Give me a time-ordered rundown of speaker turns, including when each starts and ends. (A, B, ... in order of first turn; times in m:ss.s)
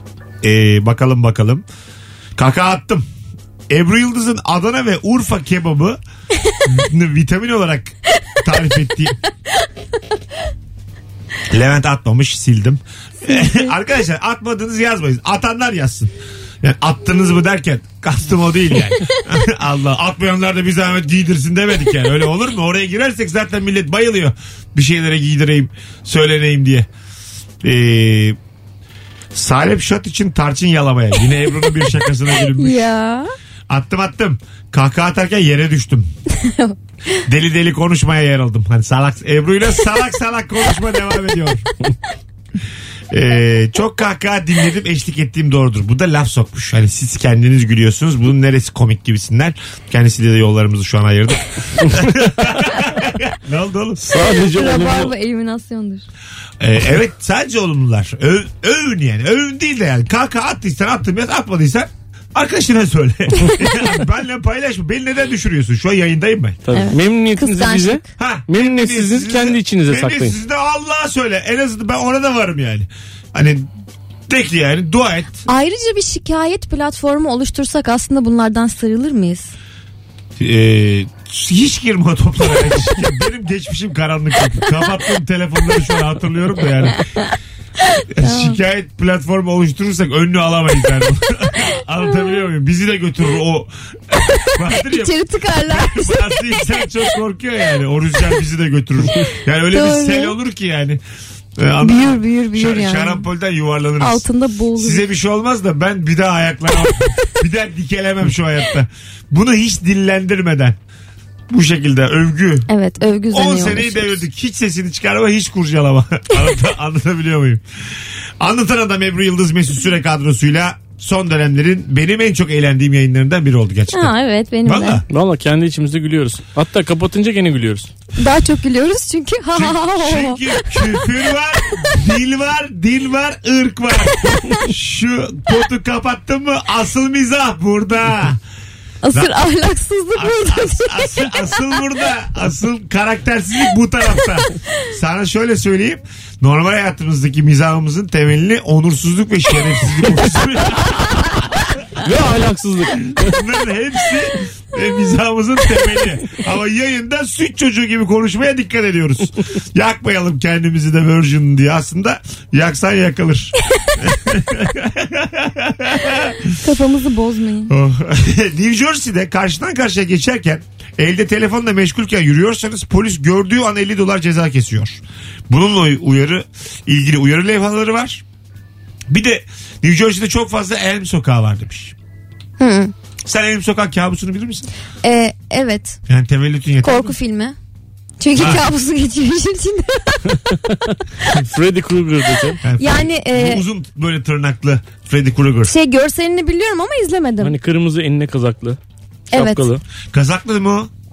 0:00.4-0:01.6 A
0:02.4-0:03.0 A
0:03.7-0:06.0 A
0:06.6-0:09.2 A
0:11.5-0:26.9 A
0:13.2-0:13.7 B
0:27.6-0:28.4 A
0:29.3-0:32.9 A
0:32.6-0:33.3 B
0:33.7-0:36.0 A
0:36.3-0:37.2 B
0:37.2-0:41.7 A
0:43.1-0:54.0 A
0:54.0-0:55.1 C
0:54.1-0:56.0 B
0:56.6-1:06.6 A
1:06.7-1:10.4 C
1:06.7-1:08.0 B
1:08.2-1:13.7 A
1:14.3-1:15.4 A
1:15.5-1:19.5 B
1:20.4-1:27.1 A
1:27.9-1:28.6 B
1:28.1-1:41.0 A
1:34.6-1:36.8 B
1:39.7-1:40.3 B
1:41.6-1:44.2 A
1:41.8-1:43.2 B
1:44.0-1:45.0 B
1:44.8-1:50.8 A
1:51.5-1:52.7 A
1:52.7-1:54.2 B
1:53.3-1:57.6 A
1:58.4-2:04.1 A
2:03.9-2:05.0 B
2:04.6-2:05.0 A
2:05.1-2:07.9 C
2:08.2-2:11.0 B
2:09.5-2:18.4 A
2:19.0-2:21.4 B
2:20.1-2:31.5 A
2:32.0-2:33.4 C
2:33.1-2:46.6 A
2:46.6-2:47.7 B
2:47.7-2:58.2 A
2:59.1-3:01.9 A
3:02.6-3:02.9 B
3:03.2-3:04.7 A
3:05.0-3:06.0 B
3:06.1-3:07.1 A
3:06.8-3:07.6 B
3:08.2-3:10.3 B
3:08.4-3:08.6 A
3:10.3-3:12.6 C
3:12.6-3:15.7 A
3:12.8-3:13.6 B
3:15.6-3:17.5 B
3:17.4-3:18.8 C
3:19.3-3:19.7 B
3:19.3-3:19.8 C
3:20.1-3:20.9 A